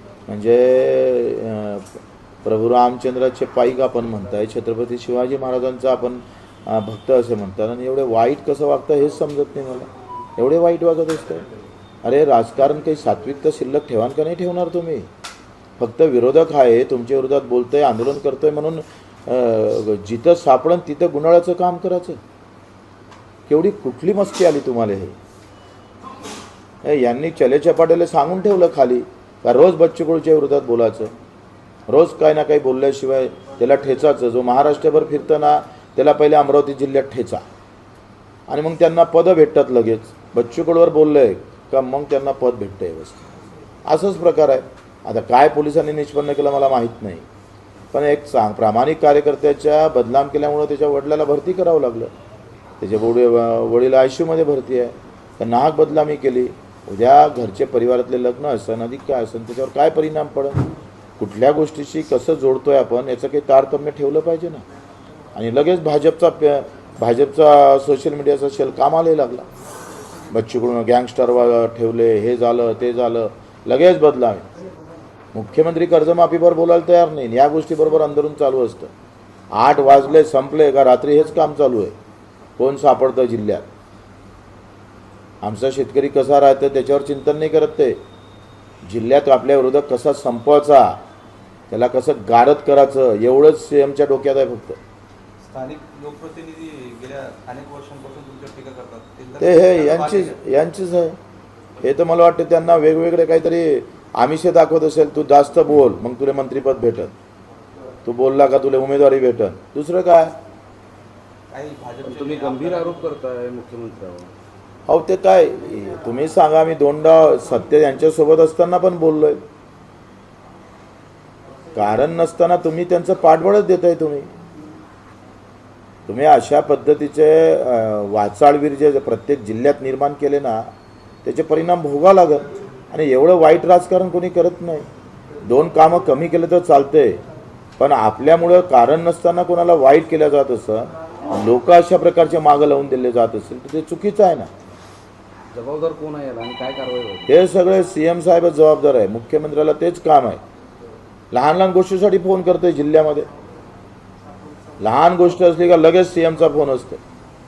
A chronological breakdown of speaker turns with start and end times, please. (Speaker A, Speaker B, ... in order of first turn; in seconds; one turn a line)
Speaker A: 0.3-11.5
Speaker A: 12.0-15.1
Speaker A: 15.8-22.2
Speaker A: 23.5-25.1
Speaker A: 26.8-31.1
Speaker A: 31.9-37.4
Speaker A: 38.5-43.3
Speaker A: 43.9-47.2
Speaker A: 47.9-52.1
Speaker A: 52.8-60.6
Speaker A: 61.2-64.6
Speaker A: 65.3-69.5
Speaker A: 70.3-74.5
Speaker A: 75.3-78.9
Speaker A: 79.5-81.9
Speaker A: 82.6-83.7
Speaker A: 85.4-88.0
Speaker A: 88.8-91.0
Speaker A: 91.7-94.8
Speaker B: 95.4-100.4
Speaker A: 99.4-101.2
Speaker A: 101.8-107.1
Speaker A: 108.0-110.3
Speaker B: 111.5-113.2
Speaker C: 112.0-114.3
Speaker A: 114.9-119.4
Speaker A: 121.7-124.3
Speaker A: 126.1-130.7
Speaker A: 131.2-134.9
Speaker A: 135.4-137.2
Speaker A: 137.8-144.5
Speaker C: 145.5-147.3
Speaker A: 147.3-150.4
Speaker A: 151.3-153.3
Speaker A: 154.8-157.0